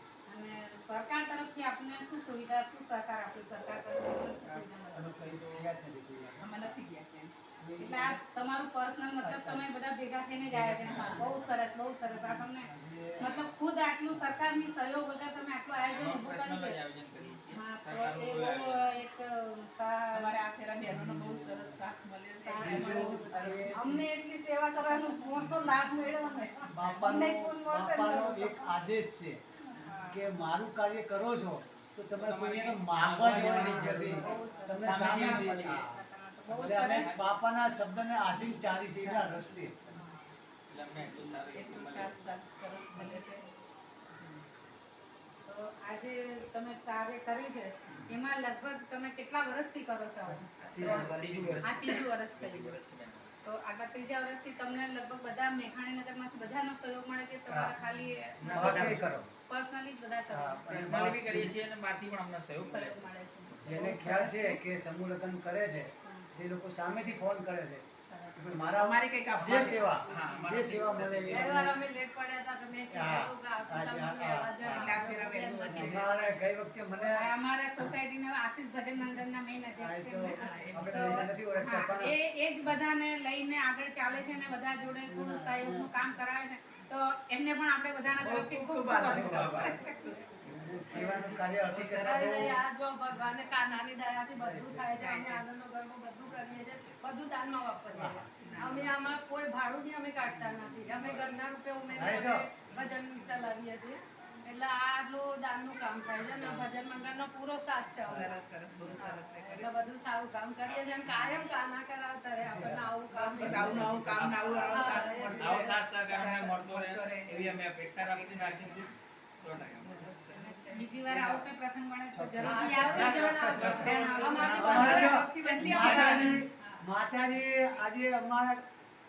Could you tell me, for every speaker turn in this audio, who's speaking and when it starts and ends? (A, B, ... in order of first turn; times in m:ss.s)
0:00.3-0:05.1 A
0:04.4-0:05.7 B
0:04.9-0:06.8 C
0:06.4-0:07.3 D
0:07.6-0:08.2 C
0:07.8-0:16.8 A
0:09.2-0:09.7 C
0:10.5-0:11.7 B
0:10.8-0:11.3 D
0:12.2-0:13.3 C
0:13.2-0:13.5 B
0:14.1-0:14.4 C
0:15.8-0:19.0 B
0:17.5-0:20.3 A
0:20.1-0:23.9 D
0:20.9-0:21.8 C
0:22.4-0:28.8 A
0:22.6-0:24.1 C
0:22.6-0:23.6 E
0:24.8-0:27.2 D
0:26.7-0:29.4 C
0:29.6-0:30.3 A
0:29.7-0:30.0 D
0:30.1-0:36.0 C
0:32.1-0:35.8 B
0:34.1-0:37.1 A
0:34.1-0:35.1 E
0:34.4-0:34.8 D
0:36.5-0:39.7 C
0:36.8-0:37.3 B
0:38.3-0:40.0 D
0:39.9-0:40.2 A
0:40.7-0:42.3 B
0:41.0-0:43.4 D
0:45.5-0:51.1 A
0:50.6-0:52.0 D
0:50.8-0:51.6 C
0:50.8-0:53.3 B
0:51.6-0:52.8 A
0:53.4-1:00.6 A
0:58.4-0:59.2 B
0:58.5-0:59.2 C
1:00.3-1:01.6 C
1:00.7-1:03.9 B
1:02.6-1:04.4 A
1:03.6-1:07.8 C
1:03.8-1:04.4 E
1:08.1-1:08.7 A
1:08.4-1:11.9 C
1:08.7-1:10.0 D
1:10.1-1:11.5 B
1:10.2-1:10.4 A
1:11.3-1:16.2 E
1:12.9-1:15.0 C
1:14.7-1:16.2 D
1:15.7-1:17.3 C
1:17.0-1:29.7 A
1:19.8-1:22.2 C
1:20.4-1:21.3 D
1:25.1-1:25.9 C
1:28.1-1:32.6 D
1:29.0-1:29.8 C
1:30.4-1:32.6 C
1:30.9-1:31.4 E
1:32.0-1:54.0 E
1:34.4-1:34.9 C
1:34.9-1:35.7 D
1:36.3-1:37.3 D
1:37.9-1:38.2 C
1:38.4-1:39.4 D
1:40.2-1:40.7 D
1:40.8-1:41.4 B
1:41.9-1:42.5 C
1:42.7-1:43.5 D
1:46.2-1:46.7 D
1:48.0-1:49.8 D
1:48.0-1:48.3 C
1:50.6-1:51.5 B
1:52.4-1:55.0 C
1:53.1-1:58.9 D
1:54.0-2:00.1 B
1:54.7-1:55.8 E
1:59.8-2:01.5 D
2:00.1-2:00.9 E
2:00.3-2:06.4 A
2:02.1-2:08.6 C
2:02.4-2:06.8 E
2:02.9-2:05.1 B
2:05.9-2:06.4 B